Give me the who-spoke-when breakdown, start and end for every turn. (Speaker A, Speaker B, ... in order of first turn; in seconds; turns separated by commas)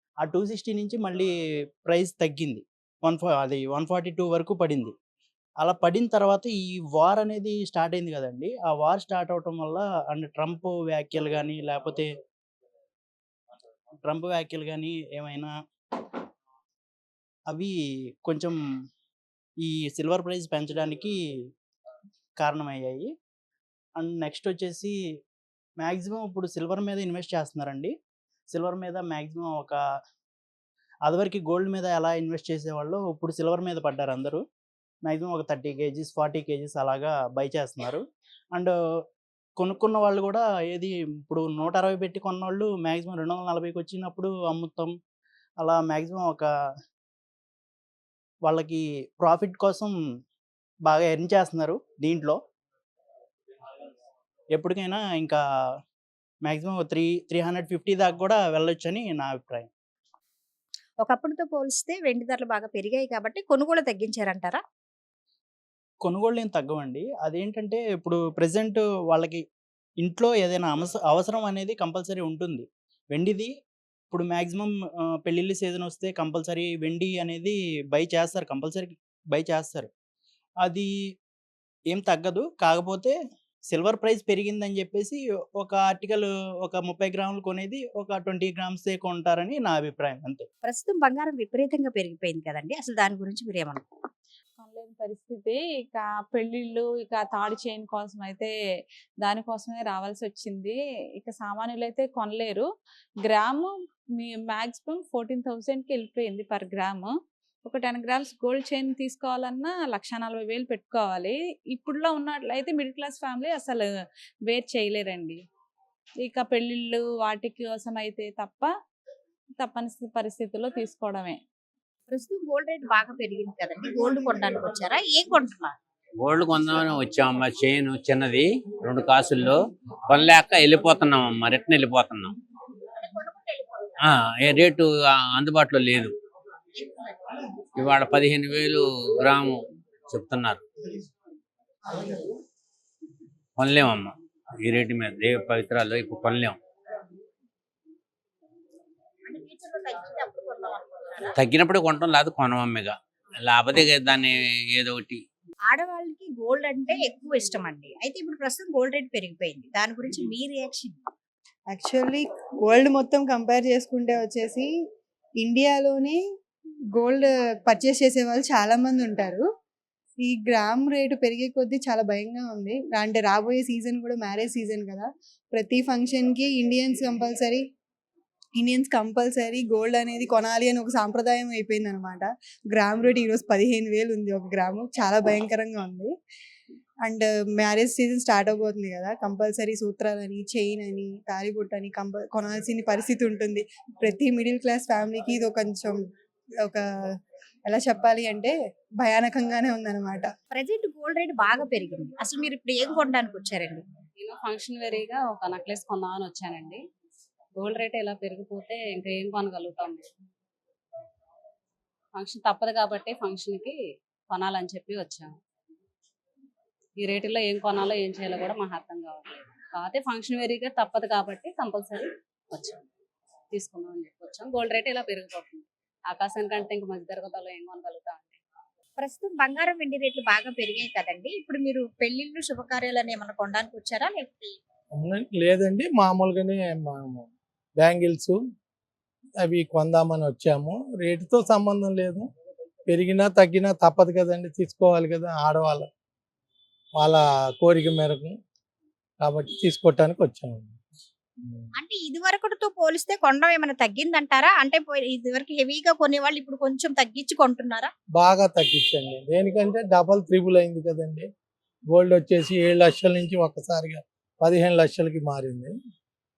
Speaker A: 0.2-1.3, Speaker A: 1.9-4.9, Speaker A: 5.6-12.1, Speaker A: 14.0-15.5, Speaker A: 18.2-18.6, Speaker A: 19.6-21.1, Speaker A: 22.4-23.1, Speaker A: 24.0-25.0, Speaker A: 25.8-27.9, Speaker A: 28.5-29.8, Speaker A: 31.1-34.4, Speaker A: 35.0-38.7, Speaker A: 39.6-44.9, Speaker A: 45.6-46.5, Speaker A: 48.4-50.0, Speaker A: 50.9-52.4, Speaker A: 54.5-55.4, Speaker A: 56.4-59.7, Speaker B: 61.0-64.6, Speaker A: 66.0-69.4, Speaker A: 70.0-73.5, Speaker A: 74.1-79.9, Speaker A: 80.6-80.9, Speaker A: 81.9-83.2, Speaker A: 83.7-90.5, Speaker B: 90.6-93.9, Speaker C: 94.6-98.5, Speaker C: 99.2-102.7, Speaker C: 103.2-113.9, Speaker C: 114.5-115.4, Speaker C: 116.2-118.7, Speaker C: 119.6-121.4, Speaker B: 122.1-125.8, Speaker D: 126.2-132.3, Speaker B: 133.1-133.6, Speaker D: 134.0-136.1, Speaker B: 136.8-137.1, Speaker D: 137.8-140.6, Speaker D: 143.6-146.6, Speaker B: 149.3-151.3, Speaker D: 151.3-155.2, Speaker B: 155.7-161.0, Speaker E: 161.7-164.7, Speaker E: 165.4-166.2, Speaker E: 167.0-169.4, Speaker E: 170.2-177.6, Speaker E: 178.6-186.1, Speaker E: 187.0-196.0, Speaker E: 197.7-200.3, Speaker B: 200.5-203.8, Speaker F: 204.2-206.8, Speaker F: 207.6-210.1, Speaker F: 212.1-213.8, Speaker F: 214.3-215.4, Speaker F: 217.0-222.8, Speaker F: 223.5-228.4, Speaker B: 229.0-234.6, Speaker G: 234.9-237.3, Speaker G: 237.8-238.4, Speaker G: 239.4-242.3, Speaker G: 242.9-245.9, Speaker G: 247.0-248.4, Speaker G: 249.2-250.8, Speaker B: 251.8-257.9, Speaker G: 258.2-261.3, Speaker G: 261.9-265.7